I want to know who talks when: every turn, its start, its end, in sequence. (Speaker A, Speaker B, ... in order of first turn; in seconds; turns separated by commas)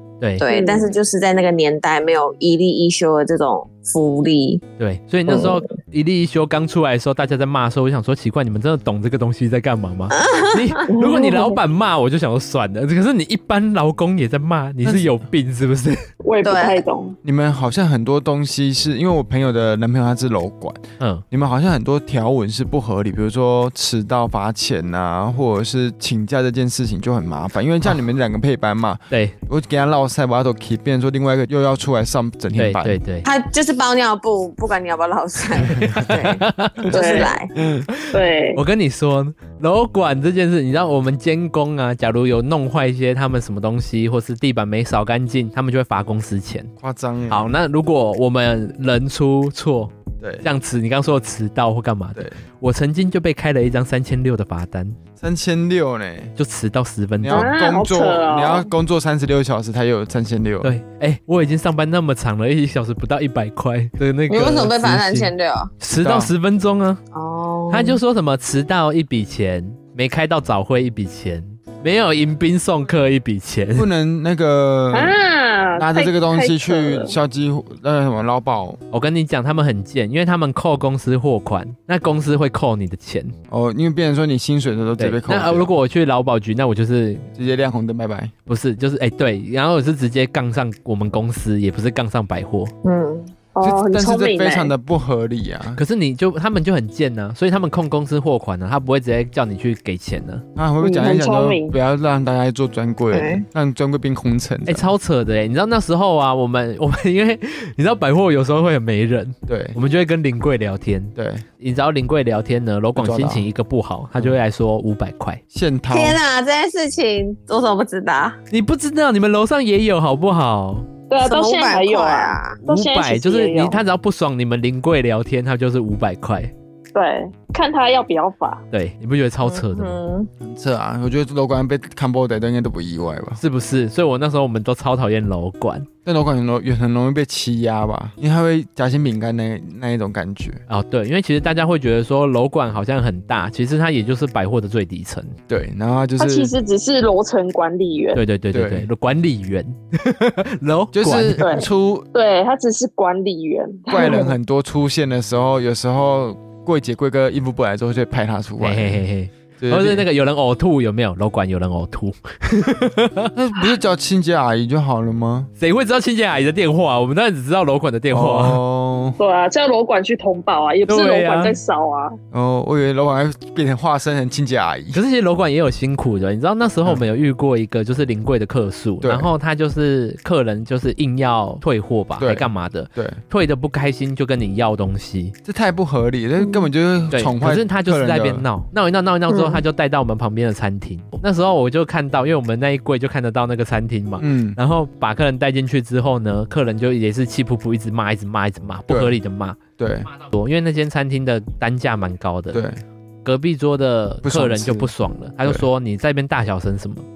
Speaker A: 0.4-4.6, Speaker B: 0.5-0.9, Speaker C: 4.8-16.0, Speaker A: 5.3-5.6, Speaker A: 10.1-11.4, Speaker B: 10.9-11.5, Speaker D: 14.8-15.1, Speaker B: 16.2-17.2, Speaker A: 16.4-16.8, Speaker D: 17.2-33.0, Speaker C: 32.6-33.3, Speaker A: 33.2-37.5, Speaker C: 35.6-36.9, Speaker B: 36.9-37.3, Speaker B: 38.1-38.6, Speaker C: 38.5-46.7, Speaker D: 46.8-47.5, Speaker C: 47.3-55.0, Speaker D: 50.2-50.5, Speaker D: 55.2-56.3, Speaker C: 56.4-57.5, Speaker D: 57.2-60.7, Speaker B: 57.3-58.7, Speaker C: 60.6-67.0, Speaker A: 64.3-65.7, Speaker D: 65.9-66.3, Speaker A: 67.1-68.0, Speaker C: 67.7-73.9, Speaker D: 73.8-75.2, Speaker B: 74.9-77.1, Speaker D: 75.8-78.8, Speaker C: 78.9-83.3, Speaker D: 83.5-85.7, Speaker C: 85.0-87.3, Speaker D: 87.3-88.3, Speaker C: 88.5-92.7, Speaker A: 92.8-93.3, Speaker B: 93.5-94.7, Speaker D: 93.6-95.8, Speaker C: 95.8-100.4, Speaker D: 100.6-104.9, Speaker B: 100.8-101.8, Speaker A: 103.1-103.4, Speaker C: 104.7-115.4, Speaker D: 109.5-109.8, Speaker D: 111.2-111.5, Speaker D: 113.0-113.5, Speaker D: 115.5-116.2, Speaker A: 115.9-118.4, Speaker C: 118.5-120.9, Speaker B: 121.1-123.8, Speaker A: 121.2-122.6, Speaker C: 122.7-126.5, Speaker B: 126.9-128.6, Speaker C: 128.7-130.0, Speaker A: 129.5-130.3, Speaker D: 130.4-133.4, Speaker C: 133.4-135.9, Speaker D: 136.1-140.6, Speaker C: 140.7-145.4, Speaker D: 145.5-146.5, Speaker B: 146.2-148.2, Speaker C: 148.2-151.4, Speaker D: 148.5-148.9, Speaker D: 150.9-152.1, Speaker B: 151.4-154.3, Speaker D: 153.9-159.0, Speaker C: 158.6-163.3, Speaker D: 159.6-160.1, Speaker D: 163.3-165.5, Speaker C: 165.6-168.6, Speaker D: 168.1-169.2, Speaker B: 169.2-172.2, Speaker C: 170.9-171.6, Speaker D: 172.3-175.0, Speaker C: 174.9-185.3, Speaker D: 179.0-179.3, Speaker D: 182.2-183.2, Speaker D: 185.5-188.4, Speaker C: 187.1-199.6, Speaker A: 189.3-189.6, Speaker D: 194.2-194.6, Speaker D: 198.9-199.1, Speaker D: 199.8-200.1, Speaker C: 200.2-202.6, Speaker D: 202.5-202.8, Speaker C: 203.2-207.1, Speaker D: 204.2-204.9